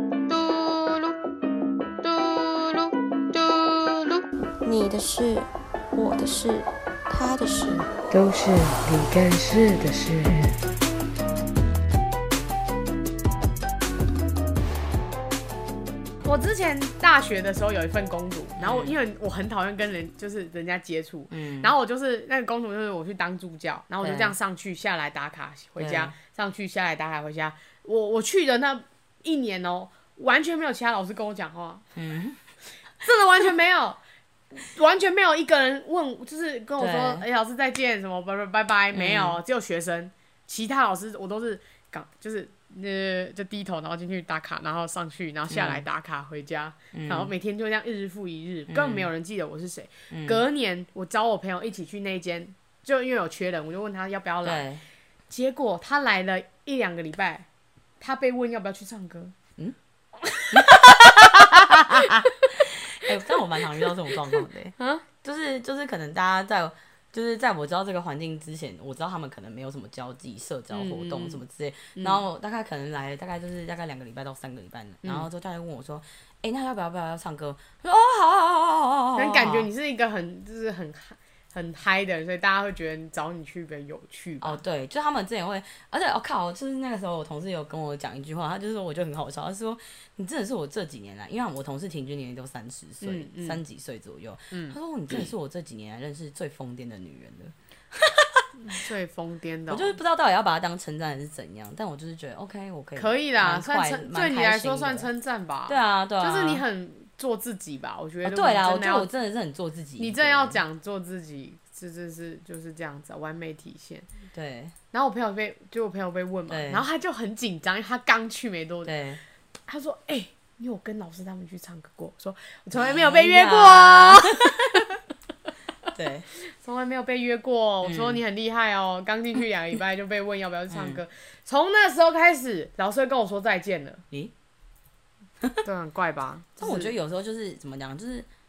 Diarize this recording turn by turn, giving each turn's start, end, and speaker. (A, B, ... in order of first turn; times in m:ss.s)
0:00.3-0:01.1 A
0:02.0-0:07.9 A
0:07.9-0:10.6 B
0:16.2-0:31.8 B
0:18.6-0:19.0 C
0:21.3-0:21.7 C
0:24.0-0:24.3 C
0:25.8-0:26.1 C
0:31.9-0:32.4 C
0:33.0-0:34.0 B
0:34.6-0:54.6 B
0:36.8-0:37.2 C
0:38.9-0:39.4 C
0:45.5-0:45.8 C
0:46.9-0:47.3 C
0:48.7-0:49.1 C
0:50.1-0:50.4 C
0:54.4-0:54.8 C
0:55.3-0:57.5 B
0:58.0-0:59.3 B
1:00.3-1:02.3 B
1:00.5-1:19.7 C
1:04.3-1:05.0 B
1:10.7-1:11.4 B
1:12.0-1:12.2 B
1:15.0-1:15.3 B
1:19.2-1:24.6 B
1:24.4-1:38.4 C
1:33.0-1:33.6 B
1:34.5-1:35.3 B
1:38.6-1:40.0 B
1:39.7-1:45.1 C
1:43.0-1:49.1 B
1:45.7-1:46.6 C
1:48.2-1:50.6 C
1:50.0-1:54.1 B
1:54.3-1:54.7 C
1:54.9-1:58.9 B
1:56.5-1:56.8 C
1:58.8-1:59.2 C
1:59.7-2:04.9 B
2:02.7-2:04.6 C
2:05.9-2:06.3 C
2:06.4-2:14.0 B
2:07.8-2:08.2 C
2:10.7-2:11.0 C
2:15.6-2:16.9 B
2:16.6-2:18.3 C